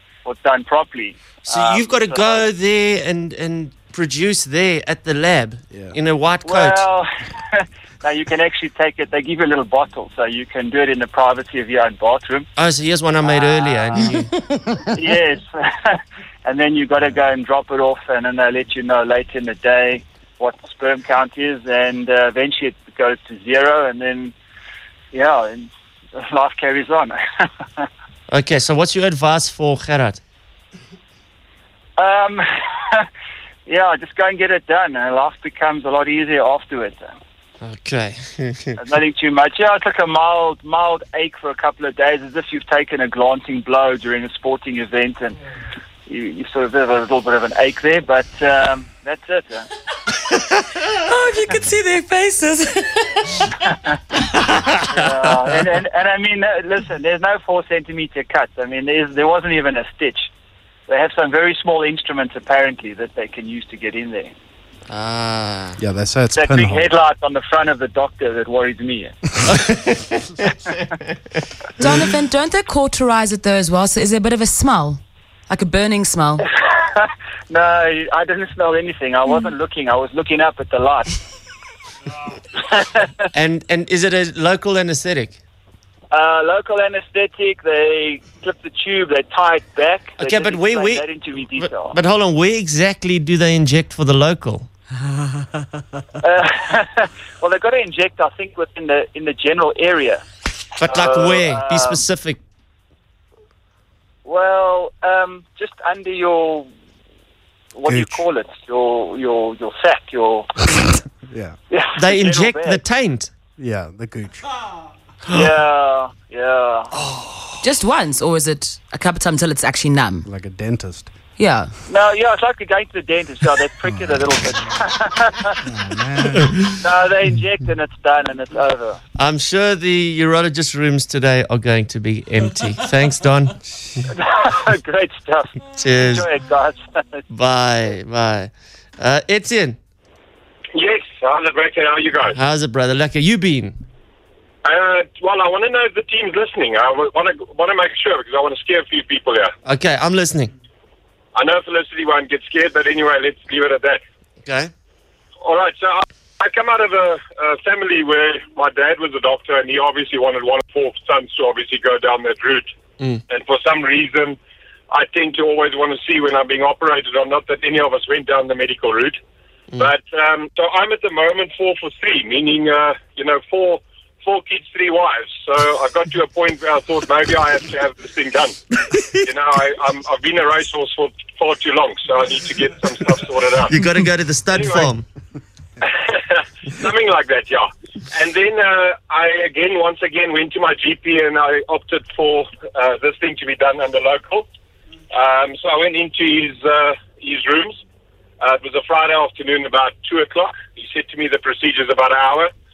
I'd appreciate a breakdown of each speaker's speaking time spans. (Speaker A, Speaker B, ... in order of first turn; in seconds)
Speaker A: 0.2-2.4, 6.5-12.5, 13.2-14.1, 14.9-24.3, 25.1-27.2, 32.0-33.1, 33.7-37.1, 38.8-45.4, 46.1-49.7, 54.9-60.3, 60.9-64.3, 66.3-69.1, 76.6-81.1, 82.7-83.1, 86.1-92.0, 96.2-100.2, 100.8-102.0, 104.2-106.7, 107.8-110.5, 111.7-112.8, 115.3-116.9, 121.9-125.6, 126.8-129.0, 134.1-137.2
Speaker B: 1.4-6.9, 12.6-14.3, 28.3-30.2, 37.6-38.8, 64.9-65.8, 69.5-70.2, 83.3-85.4, 90.2-94.7, 100.8-102.4, 112.0-113.3, 129.2-133.6, 135.8-136.3, 137.3-139.8, 142.3-143.8, 149.7-150.5, 154.4-154.7, 183.7-185.0
Speaker C: 5.7-6.0, 65.8-66.9, 107.9-108.3, 111.3-111.6, 113.6-114.4, 120.2-121.1, 123.8-124.3, 125.7-126.6
Speaker D: 51.1-53.0, 71.8-76.4, 117.6-120.3, 121.4-121.7
Speaker E: 140.7-142.4, 144.7-149.5, 151.3-154.0, 155.4-162.7, 163.3-164.4, 164.9-169.2, 169.8-178.6, 179.2-183.8, 184.5-184.9, 185.8-194.5, 195.1-197.8, 198.4-202.5